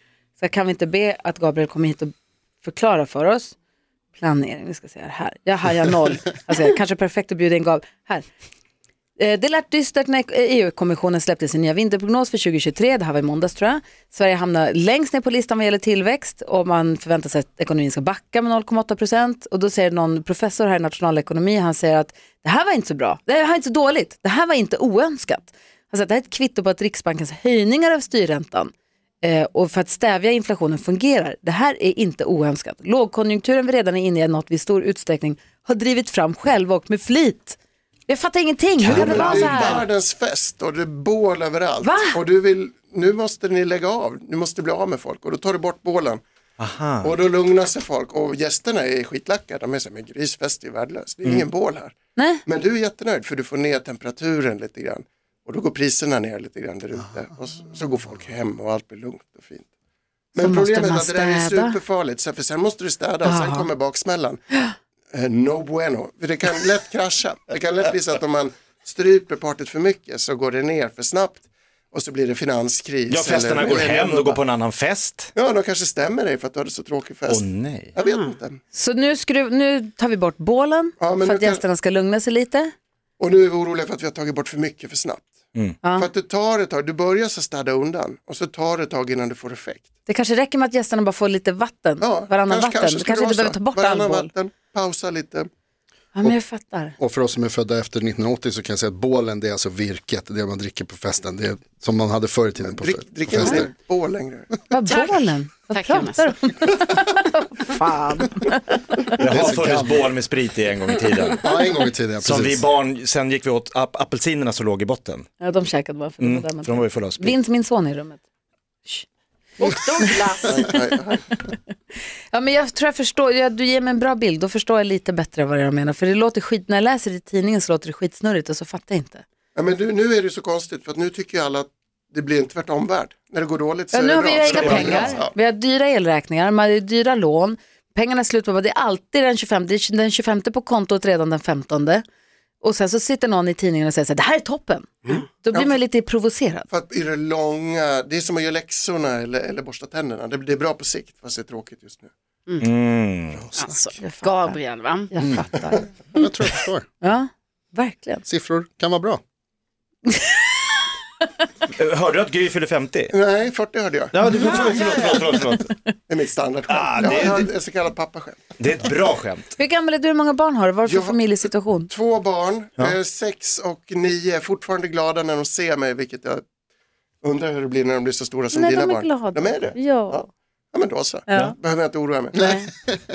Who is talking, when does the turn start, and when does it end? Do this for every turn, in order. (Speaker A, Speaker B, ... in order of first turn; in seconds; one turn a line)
Speaker A: 0.4-3.5
Speaker A: 4.1-8.2
Speaker A: 9.2-37.6
Speaker A: 38.1-39.9
Speaker B: 38.8-46.2
Speaker C: 38.8-39.7
Speaker A: 41.8-42.2
Speaker C: 46.6-47.1
Speaker B: 47.0-59.7
Speaker A: 52.1-52.4
Speaker B: 60.3-64.4
Speaker A: 60.4-61.8
Speaker A: 63.2-63.7
Speaker B: 65.1-74.4
Speaker C: 73.1-75.3
Speaker B: 75.3-78.6
Speaker C: 77.3-77.9
Speaker D: 78.1-78.3
Speaker A: 78.7-82.7
Speaker B: 81.0-81.6
Speaker B: 83.2-85.3
Speaker A: 85.8-86.1
Speaker B: 85.9-89.9
Speaker A: 90.0-94.3
Speaker B: 92.0-95.5
Speaker A: 96.1-97.0
Speaker E: 97.0-103.7
Speaker B: 102.6-104.7
Speaker A: 103.3-103.6
Speaker A: 104.7-109.1
Speaker D: 104.9-105.1
Speaker D: 105.7-106.4
Speaker E: 109.2-110.1
Speaker C: 109.2-111.4
Speaker E: 111.4-112.6
Speaker C: 112.2-115.2
Speaker A: 115.4-118.2
Speaker C: 116.2-117.3
Speaker D: 119.6-120.7
Speaker B: 120.5-121.2
Speaker A: 122.3-129.2
Speaker B: 129.5-135.3
Speaker A: 133.9-142.0
Speaker C: 134.4-135.0
Speaker E: 134.6-135.1
Speaker A: 142.6-146.7
Speaker B: 145.0-145.8
Speaker B: 146.7-152.1
Speaker C: 152.6-153.4
Speaker E: 153.3-153.9
Speaker D: 153.6-155.1
Speaker A: 154.0-154.6
Speaker A: 155.1-156.2
Speaker E: 155.2-156.8
Speaker A: 157.0-158.2
Speaker E: 158.2-159.2
Speaker A: 160.1-160.3
Speaker C: 161.8-163.1
Speaker B: 163.1-165.1
Speaker C: 164.1-165.7
Speaker B: 166.1-168.4
Speaker C: 166.7-167.5
Speaker C: 168.6-169.5
Speaker A: 169.6-171.9
Speaker B: 170.8-171.2
Speaker B: 171.9-176.4
Speaker B: 177.2-182.4
Speaker A: 178.5-180.2
Speaker A: 181.3-181.6
Speaker A: 182.3-182.7
Speaker E: 182.5-183.0